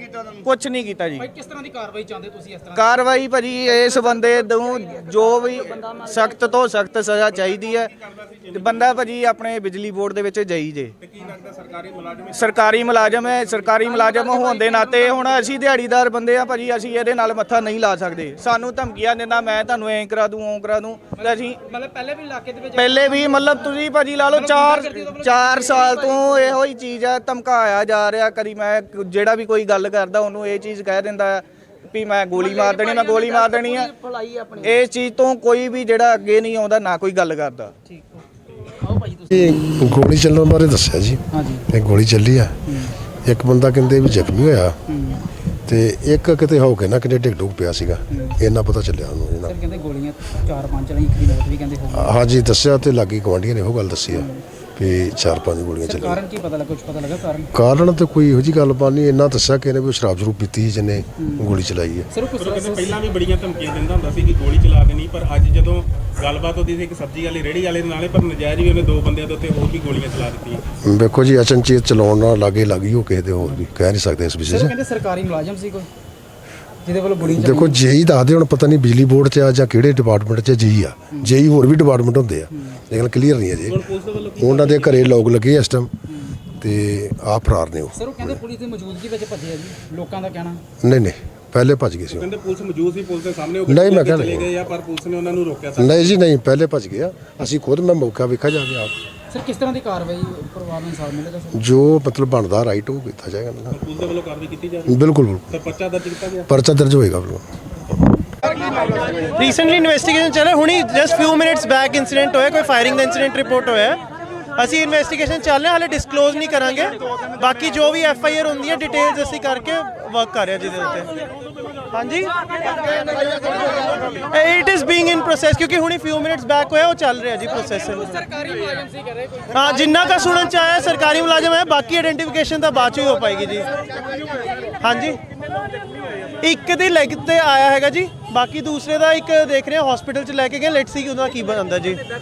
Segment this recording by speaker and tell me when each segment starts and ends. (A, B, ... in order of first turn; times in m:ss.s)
0:00.4-0:01.3 A
0:01.2-0:03.2 B
0:02.8-0:07.9 A
0:03.7-0:04.3 B
0:04.4-0:06.6 C
0:07.4-0:08.9 D
0:08.5-0:11.0 A
0:11.0-0:12.4 D
0:12.3-0:21.6 A
0:13.7-0:15.5 B
0:21.2-0:23.7 B
0:22.8-0:33.9 A
0:24.3-0:26.4 B
0:32.4-0:34.8 C
0:34.6-0:37.7 A
0:37.9-0:38.2 B
0:38.8-0:39.6 B
0:39.3-0:42.7 E
0:41.3-0:41.6 B
0:43.2-0:44.8 E
0:44.9-0:45.2 B
0:45.7-0:49.6 E
0:49.5-0:52.1 B
0:52.0-0:56.2 E
0:54.1-0:54.4 B
0:55.8-0:57.5 B
0:57.5-1:02.1 E
1:01.2-1:01.5 B
1:02.1-1:03.0 B
1:02.4-1:10.6 D
1:10.8-1:14.8 E
1:14.5-1:15.9 B
1:16.8-1:17.8 B
1:17.2-1:23.9 E
1:23.7-1:25.2 D
1:24.4-1:25.9 E
1:26.6-1:28.4 E
1:28.0-1:30.6 B
1:30.8-1:32.3 E
1:32.1-1:36.2 D
1:33.7-1:34.7 E
1:35.8-1:39.0 E
1:39.3-1:41.6 B
1:41.5-1:43.8 E
1:43.7-1:44.9 D
1:44.9-1:45.5 E
1:45.5-1:46.5 D
1:46.5-1:47.4 E
1:48.6-1:49.3 B
1:49.4-1:54.0 F
1:54.6-2:01.1 F
2:01.9-2:02.3 F
2:02.9-2:04.0 B
2:03.2-2:04.1 D
2:04.3-2:08.2 F
2:07.7-2:10.6 B
2:09.5-2:13.7 F
2:14.8-2:15.2 F
2:16.4-2:22.0 F